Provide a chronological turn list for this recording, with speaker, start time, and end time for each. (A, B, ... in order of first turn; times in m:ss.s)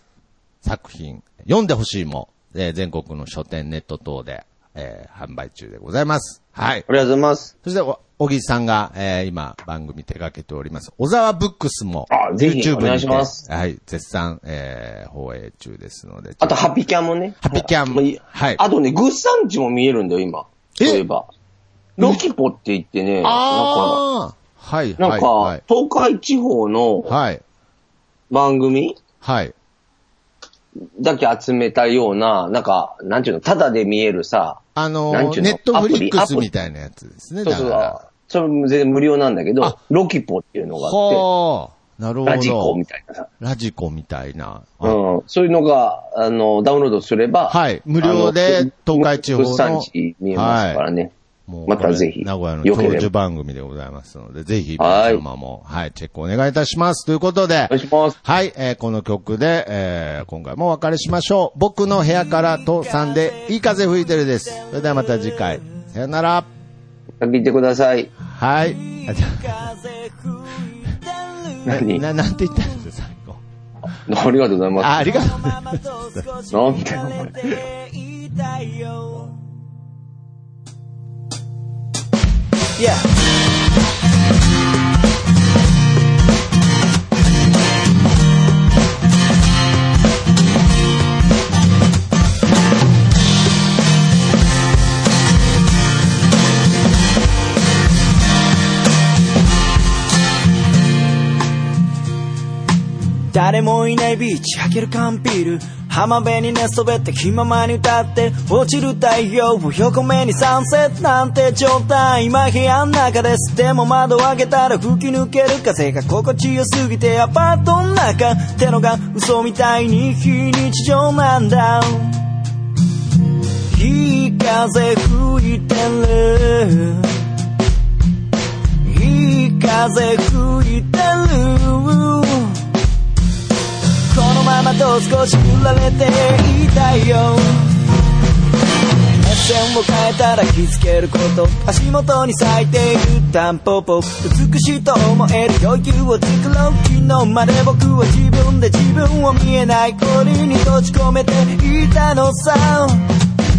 0:00.6-0:06.9 A
0:06.9-0:07.5 B
0:07.6-0:16.6 A
0:12.1-0:13.4 B
0:16.4-0:21.3 B
0:17.4-0:18.6 A
0:20.8-0:21.0 A
0:22.0-0:22.2 A
0:22.0-0:24.0 B
0:23.2-0:25.6 A
0:25.0-0:27.1 B
0:27.1-0:27.4 A
0:28.3-0:29.0 B
0:29.2-0:29.5 A
0:31.0-0:36.5 B
0:34.8-0:38.0 A
0:37.4-0:41.2 B
0:40.8-0:42.8 A
0:42.3-0:43.3 B
0:43.4-0:45.0 A
0:44.8-0:51.1 B
0:47.5-0:50.8 A
0:51.5-1:06.5 A
0:51.7-0:53.1 B
0:54.8-0:55.2 B
0:57.7-0:58.2 B
1:02.3-1:05.6 C
1:07.2-1:08.1 B
1:08.3-1:09.6 A
1:08.6-1:11.7 C
1:11.7-1:12.0 B
1:11.7-1:13.4 A
1:14.1-1:15.1 B
1:14.8-1:15.8 A
1:15.0-1:19.4 C
1:16.5-1:17.3 B
1:22.8-1:23.1 C
1:43.3-2:02.2 C
2:03.7-2:07.2 C
2:08.8-2:12.6 C
2:14.1-2:17.8 C
2:19.2-2:33.1 C